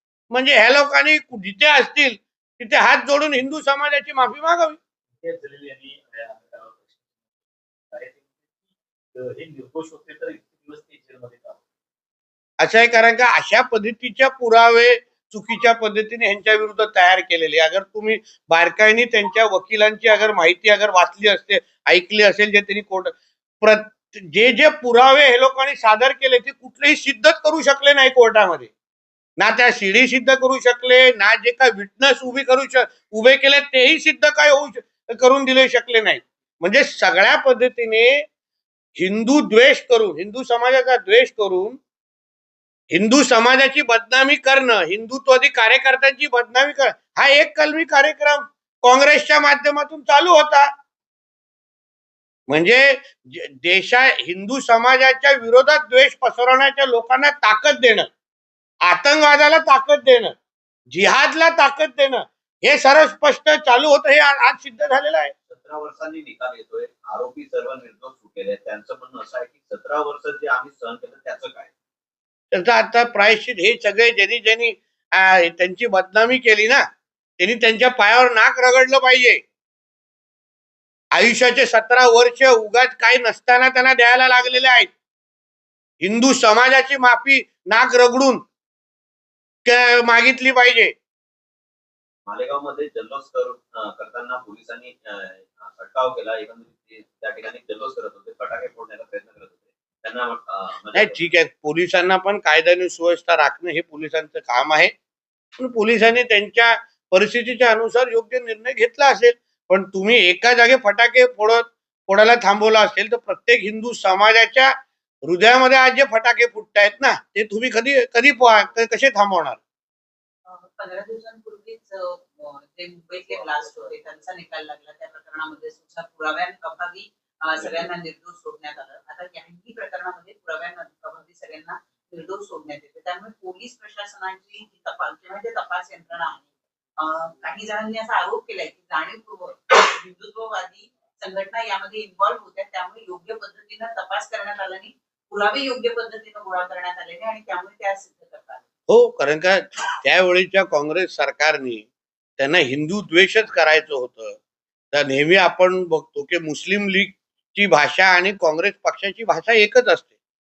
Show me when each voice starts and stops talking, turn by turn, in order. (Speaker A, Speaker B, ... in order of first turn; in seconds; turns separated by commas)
Speaker A: 0.3-4.8, Speaker A: 12.6-28.7, Speaker A: 29.4-38.2, Speaker A: 39.0-41.8, Speaker A: 42.9-50.7, Speaker A: 52.5-58.1, Speaker A: 58.8-60.3, Speaker A: 60.9-65.3, Speaker B: 65.5-71.7, Speaker A: 72.5-76.8, Speaker A: 77.4-79.4, Speaker A: 81.1-84.9, Speaker A: 86.0-88.4, Speaker A: 89.6-90.9, Speaker B: 92.2-101.2, Speaker A: 100.9-104.9, Speaker A: 105.6-114.7, Speaker A: 115.2-119.6, Speaker C: 120.4-148.6, Speaker B: 123.2-123.9, Speaker B: 127.5-127.9, Speaker A: 148.9-151.8, Speaker A: 152.4-154.4, Speaker A: 154.9-160.1